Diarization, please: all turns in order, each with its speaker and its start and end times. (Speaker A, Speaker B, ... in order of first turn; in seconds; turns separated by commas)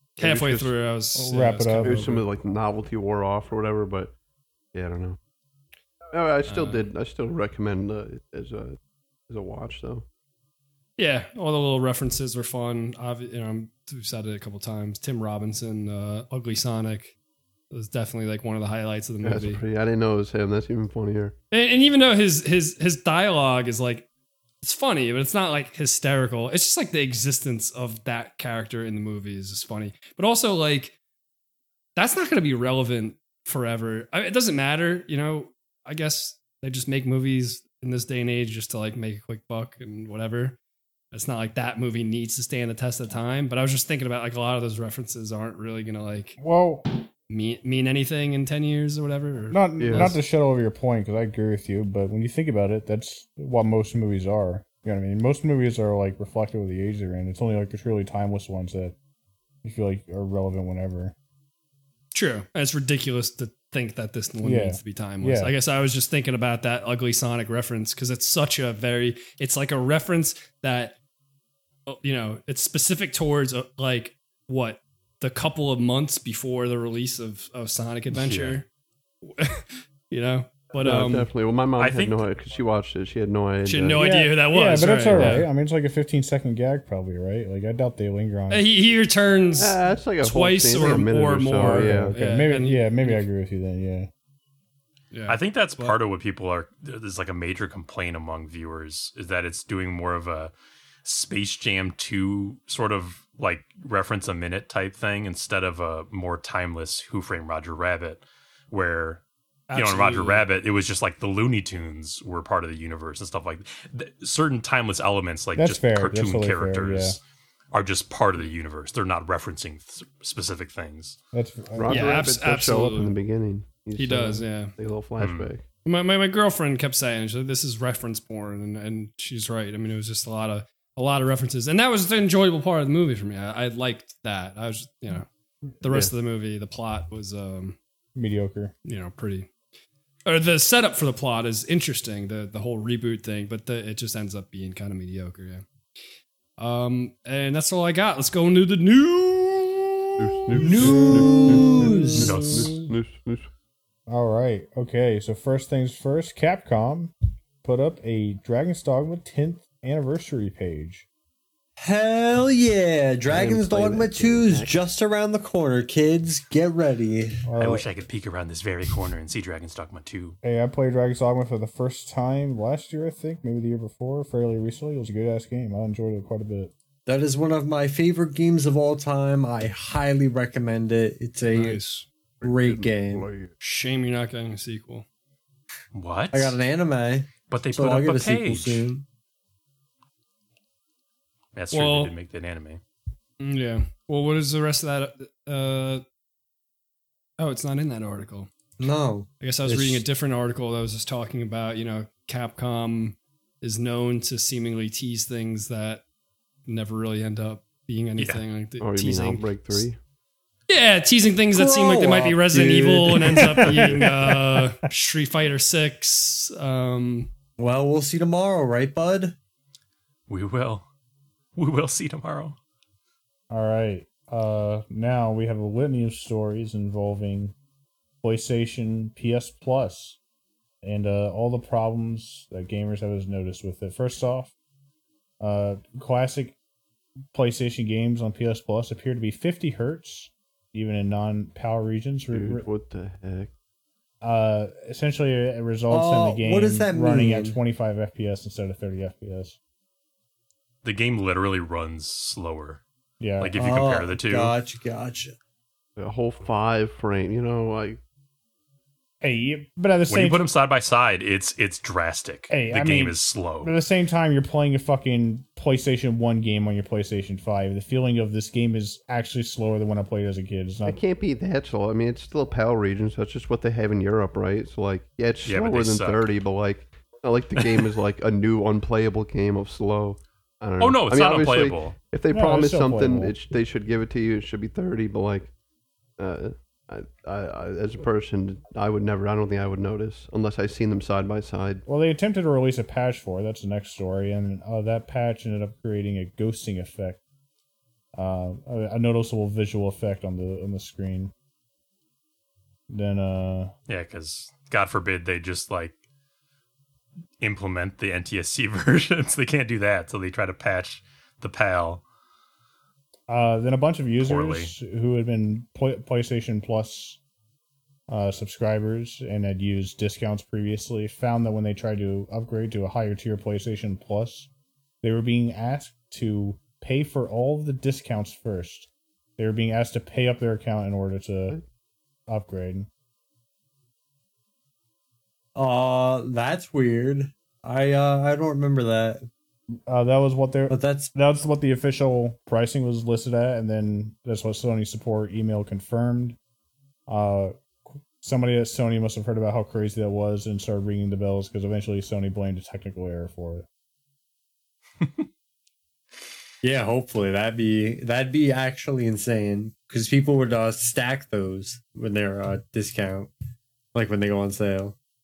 Speaker A: 0.2-2.2, Speaker B: 0.2-0.7, Speaker C: 1.1-2.2, Speaker B: 1.8-4.2, Speaker B: 4.7-5.2, Speaker B: 6.1-10.1, Speaker A: 6.5-6.8, Speaker A: 11.0-17.1, Speaker A: 17.7-19.6, Speaker B: 19.2-21.4, Speaker A: 21.5-24.1, Speaker A: 24.6-30.9, Speaker A: 31.9-40.6, Speaker A: 41.1-46.4, Speaker C: 46.4-46.9, Speaker A: 47.3-50.2, Speaker C: 49.5-58.9, Speaker B: 49.8-50.1, Speaker C: 59.6-61.1, Speaker A: 62.1-71.0, Speaker C: 64.4-65.5, Speaker A: 71.9-78.7, Speaker D: 78.1-78.6, Speaker A: 79.2-81.3, Speaker B: 80.8-84.1, Speaker D: 81.8-82.2, Speaker A: 83.6-85.5, Speaker C: 84.0-88.6, Speaker A: 88.5-93.2, Speaker B: 89.6-92.2, Speaker C: 91.6-94.1, Speaker A: 95.1-96.0, Speaker D: 95.3-100.5, Speaker D: 101.0-109.2, Speaker A: 109.7-110.4, Speaker D: 109.7-121.2, Speaker C: 115.5-117.2, Speaker C: 121.3-122.2, Speaker B: 121.7-125.7, Speaker A: 121.9-123.2, Speaker A: 123.9-124.7, Speaker D: 125.2-125.5, Speaker A: 125.8-135.3, Speaker A: 135.8-137.8, Speaker C: 138.1-138.7, Speaker A: 138.8-139.5, Speaker A: 140.2-145.6, Speaker A: 146.6-150.4, Speaker B: 150.2-153.5, Speaker E: 150.6-152.8, Speaker C: 150.8-151.7, Speaker D: 152.2-152.8, Speaker C: 154.1-161.1, Speaker E: 161.8-167.4, Speaker B: 163.2-164.8, Speaker C: 167.4-167.8, Speaker D: 167.6-170.3, Speaker C: 170.4-176.7, Speaker E: 177.1-181.8, Speaker A: 181.5-182.1, Speaker B: 182.4-183.5, Speaker E: 182.4-183.3, Speaker A: 183.6-185.1, Speaker D: 185.9-186.6, Speaker E: 186.3-189.0, Speaker D: 187.5-188.9, Speaker D: 191.5-192.8, Speaker A: 191.7-192.1, Speaker A: 193.4-196.0, Speaker A: 197.4-198.5, Speaker E: 198.8-200.0, Speaker A: 199.4-206.0, Speaker A: 206.7-209.8, Speaker D: 208.2-208.4, Speaker B: 208.8-210.0, Speaker A: 210.7-217.3, Speaker E: 211.5-213.5, Speaker C: 213.2-214.8, Speaker E: 217.6-219.3, Speaker D: 220.3-220.9, Speaker D: 221.5-222.6, Speaker C: 223.5-227.5, Speaker C: 228.2-230.2, Speaker C: 230.8-234.5, Speaker C: 235.4-236.6, Speaker C: 237.3-242.6, Speaker B: 242.3-243.5, Speaker C: 244.2-249.6, Speaker E: 245.9-247.6, Speaker D: 250.8-252.8, Speaker C: 253.2-253.6, Speaker D: 253.4-254.5, Speaker E: 253.6-255.3, Speaker B: 256.0-258.0, Speaker C: 259.2-260.4, Speaker D: 260.1-263.7, Speaker C: 262.5-271.0, Speaker B: 270.8-285.5, Speaker D: 275.5-276.2, Speaker D: 280.8-282.0, Speaker C: 282.3-283.3, Speaker B: 286.2-291.8, Speaker C: 291.9-297.2, Speaker C: 298.1-301.3, Speaker C: 302.9-303.7, Speaker D: 303.9-306.0, Speaker D: 307.4-312.0, Speaker C: 313.3-317.2, Speaker D: 314.2-314.7, Speaker C: 318.1-324.5, Speaker C: 325.0-331.6, Speaker C: 332.3-332.9, Speaker E: 335.5-339.3, Speaker C: 339.9-346.4, Speaker E: 340.7-341.1, Speaker C: 347.1-353.7, Speaker E: 356.6-363.3, Speaker E: 363.9-364.9